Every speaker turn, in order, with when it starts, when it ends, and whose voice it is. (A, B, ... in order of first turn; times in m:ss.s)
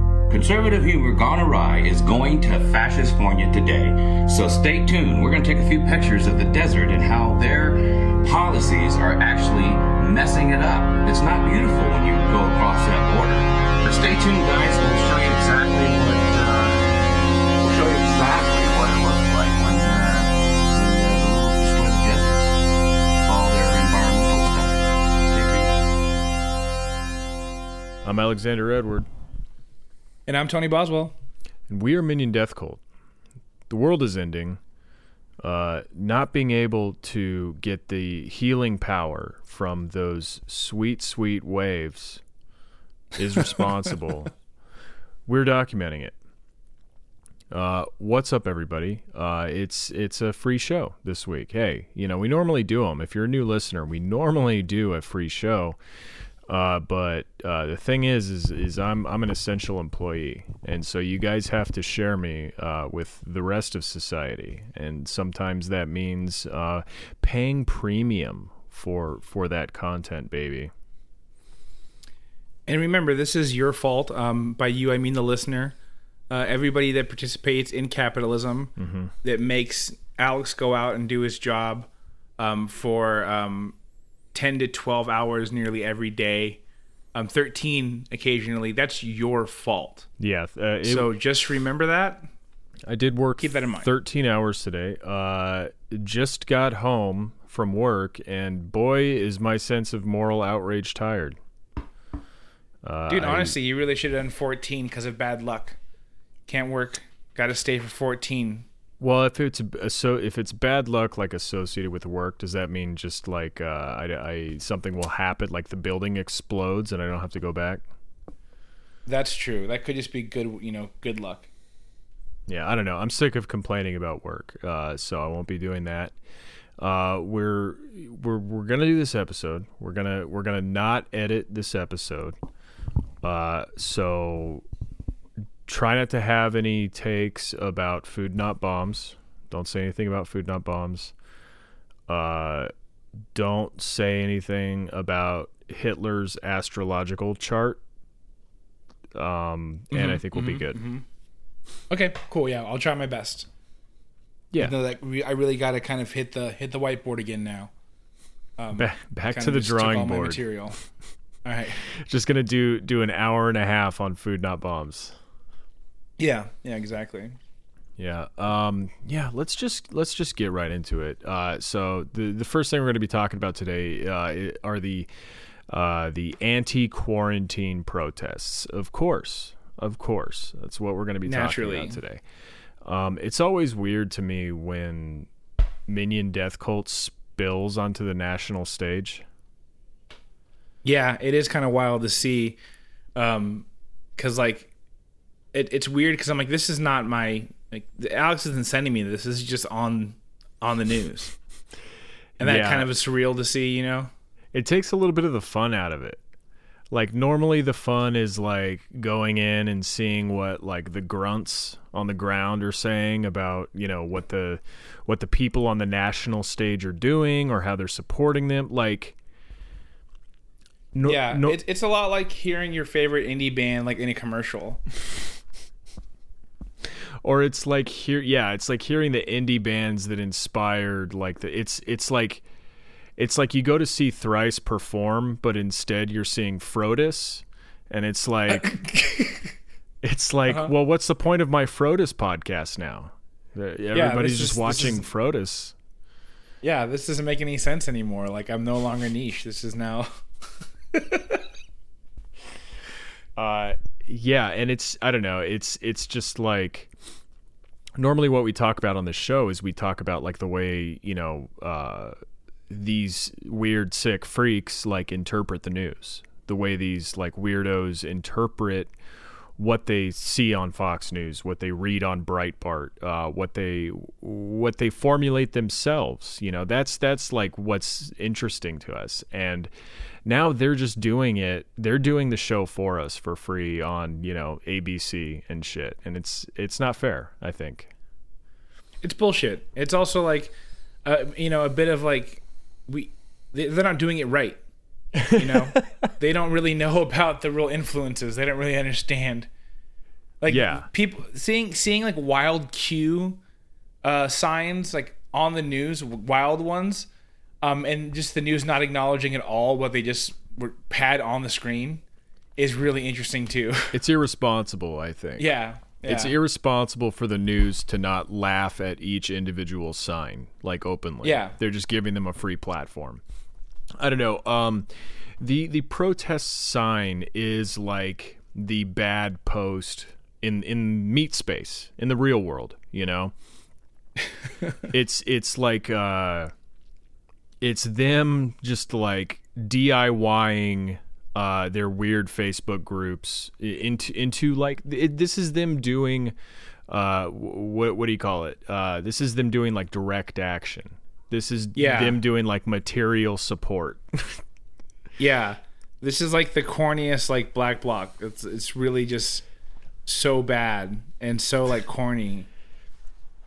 0:00.3-0:16.9 A
0:17.6-0:22.5 A
0:23.2-0:25.7 A
0:28.0-0:29.1 B
0:30.3-0:31.1 C
0:31.7-0:32.8 B
0:33.7-0:34.6 B
0:35.4-0:42.2 B
0:43.1-0:44.3 B
0:45.3-0:46.1 B
0:47.5-0:55.8 B
0:56.5-1:10.7 B
1:12.7-1:15.7 C
1:16.3-1:21.9 C
1:18.8-1:19.1 B
1:22.4-1:23.8 C
1:24.3-1:26.6 C
1:27.1-1:30.1 C
1:30.2-1:31.1 B
1:30.8-1:32.3 C
1:32.9-1:41.4 B
1:33.4-1:33.9 C
1:42.8-1:43.6 B
1:43.1-1:45.8 C
1:46.5-1:48.7 C
1:49.0-1:57.8 B
1:59.0-2:01.5 C
2:02.5-2:06.1 B
2:06.8-2:12.4 B
2:13.2-2:14.6 B
2:15.6-2:21.1 B
2:22.1-2:22.7 B
2:23.3-2:27.8 B
2:29.1-2:30.8 B
2:29.9-2:31.0 C
2:31.9-2:33.5 C
2:34.5-2:34.8 B
2:34.6-2:37.7 C
2:38.6-2:40.8 C
2:38.7-2:40.4 B
2:41.4-2:41.8 C
2:41.9-2:45.2 B
2:46.2-2:47.4 C
2:48.0-2:55.1 B
2:55.7-3:02.2 B
3:01.2-3:02.0 C
3:02.8-3:05.3 B
3:05.9-3:09.2 B
3:10.8-3:12.6 C
3:13.2-3:14.7 C
3:15.5-3:21.3 C
3:22.4-3:22.9 B
3:22.4-3:24.1 C
3:24.5-3:26.2 B
3:26.9-3:39.2 B
3:40.9-3:41.6 B
3:41.0-3:44.8 C
3:47.2-3:52.4 B
3:53.2-3:58.8 B
3:58.5-3:59.5 C
4:00.0-4:05.7 B
4:00.5-4:00.7 C
4:03.9-4:05.0 C
4:06.6-4:10.1 C
4:10.9-4:11.4 C
4:13.4-4:16.9 B
4:18.0-4:22.1 B
4:22.7-4:28.9 B
4:29.6-4:39.7 B
4:40.2-4:47.9 B
4:49.0-4:54.6 C
4:55.1-4:55.8 B
4:55.3-4:59.5 C
5:00.4-5:03.4 C
5:00.5-5:00.9 B
5:04.0-5:07.1 C
5:07.6-5:12.0 C
5:12.6-5:14.0 C
5:13.9-5:15.5 B
5:15.4-5:16.3 C
5:16.0-5:23.2 B
5:21.2-5:21.5 C
5:24.0-5:33.3 B
5:34.9-5:36.5 B
5:37.6-5:46.3 B
5:46.9-5:54.4 B
5:51.7-5:52.2 C
5:55.2-5:59.4 C
6:00.0-6:02.5 C